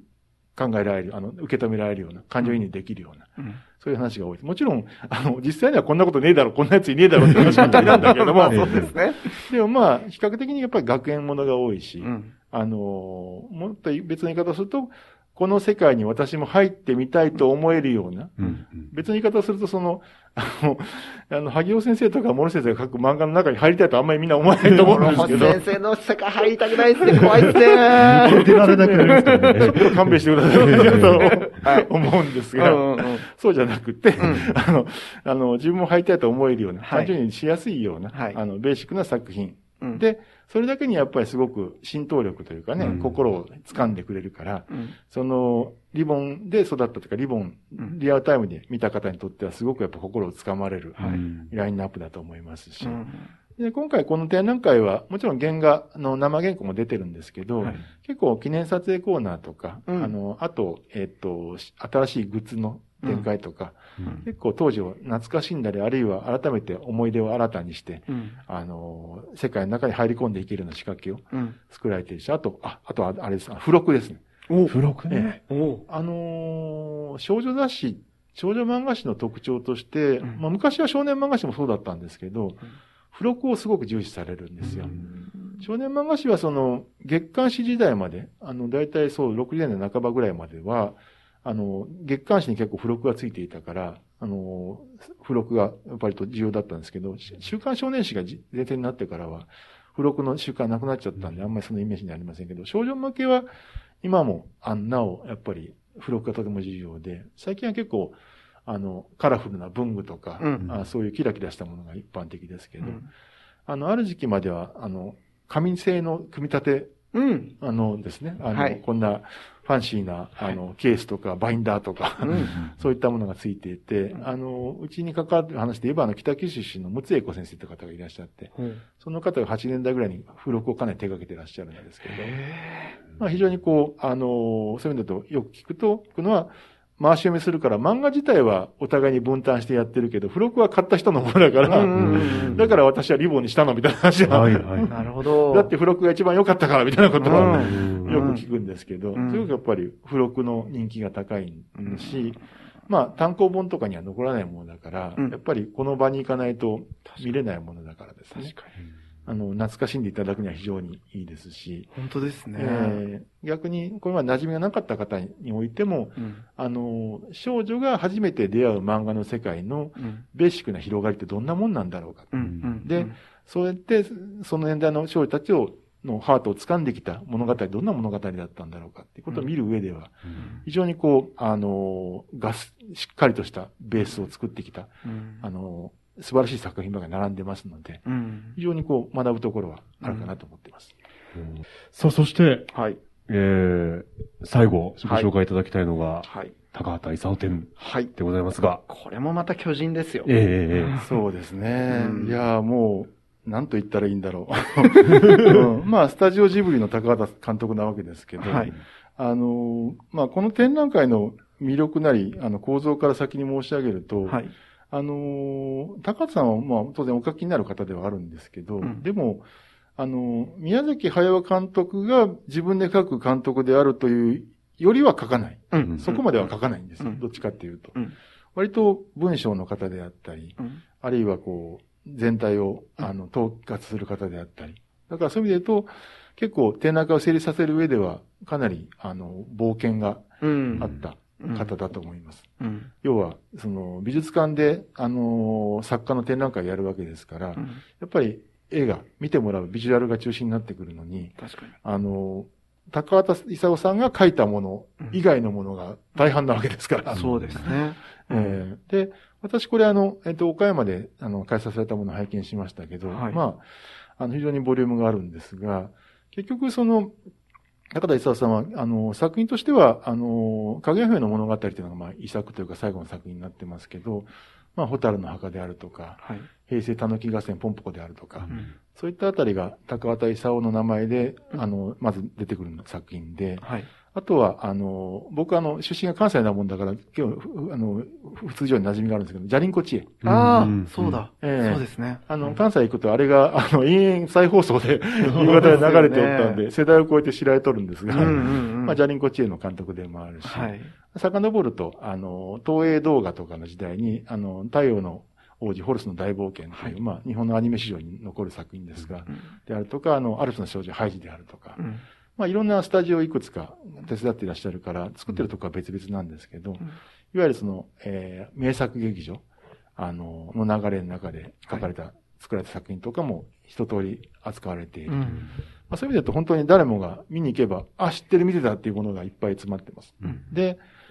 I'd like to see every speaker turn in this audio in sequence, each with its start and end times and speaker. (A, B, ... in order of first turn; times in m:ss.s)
0:00.6-0:25.6 A
0:07.3-0:08.9 B
0:07.4-0:09.5 C
0:12.0-0:12.3 C
0:18.4-0:18.9 B
0:24.6-0:25.6 B
0:24.9-0:29.9 C
0:27.0-0:53.0 A
0:27.9-0:31.5 B
0:30.6-0:31.9 C
0:32.6-0:33.3 C
0:34.2-0:34.5 C
0:34.2-0:34.5 B
0:36.8-0:37.1 C
0:38.1-0:38.4 C
0:42.8-0:43.2 B
0:44.7-0:45.0 C
0:51.0-0:51.2 C
0:51.0-0:51.5 B
0:52.8-0:53.3 C
0:53.6-1:14.2 A
0:59.9-1:00.1 C
1:03.0-1:03.3 C
1:08.1-1:08.4 C
1:11.3-1:11.6 C
1:14.5-1:14.8 C
1:14.7-1:15.3 B
1:15.1-1:25.0 A
1:15.4-1:15.8 C
1:24.6-1:25.6 C
1:25.6-1:43.5 A
1:44.0-1:53.0 A
1:50.4-1:50.6 C
1:52.8-1:53.1 C
1:53.7-1:57.0 A
1:57.1-1:57.5 C
1:57.6-2:12.3 A
1:58.5-1:58.8 C
2:02.2-2:02.6 C
2:08.6-2:08.8 C
2:12.1-2:13.0 C
2:13.2-2:38.5 A
2:21.6-2:22.6 C
2:21.9-2:22.7 B
2:24.2-2:24.9 B
2:24.9-2:25.7 C
2:27.2-2:28.4 C
2:27.3-2:28.3 B
2:29.2-2:29.5 C
2:31.8-2:32.2 C
2:37.1-2:37.4 C
2:38.3-2:38.7 C
2:39.3-2:41.9 A
2:41.9-2:43.0 C
2:42.6-3:08.0 A
2:46.2-2:46.4 C
2:50.0-2:50.2 C
2:52.3-2:53.2 C
2:52.4-2:52.7 B
3:00.4-3:00.6 C
3:05.0-3:05.5 C
3:08.1-3:08.6 C
3:08.6-3:10.9 A
3:10.0-3:10.3 C
3:11.4-3:12.7 B
3:12.7-3:13.0 C
3:13.3-3:18.8 B
3:15.0-3:15.3 C
3:16.2-3:16.6 C
3:17.8-3:18.1 C
3:18.9-3:21.0 C
3:20.2-3:21.0 B
3:21.0-3:39.4 A
3:21.9-3:22.4 C
3:25.2-3:25.5 B
3:28.4-3:28.8 C
3:34.3-3:34.5 C
3:40.0-3:48.0 A
3:45.7-3:46.5 C
3:48.6-4:02.5 A
4:00.4-4:01.7 C
4:02.6-4:02.9 C
4:03.0-4:17.2 A
4:07.6-4:07.8 C
4:11.4-4:11.7 C
4:17.1-4:18.6 C
4:17.1-4:17.7 B
4:18.3-4:23.7 A
4:23.1-4:23.4 C
4:24.2-4:27.2 A
4:27.9-4:50.2 A
4:36.2-4:36.5 C
4:43.6-4:43.9 C
4:50.2-4:51.2 B
4:50.2-4:52.6 C
4:51.4-5:11.8 A
4:55.2-4:56.6 C
4:58.1-4:59.0 C
5:00.4-5:00.9 C
5:09.3-5:09.5 C
5:11.8-5:12.0 C
5:12.4-5:19.4 A
5:20.0-5:25.4 A
5:25.1-5:25.5 C
5:25.9-5:30.8 A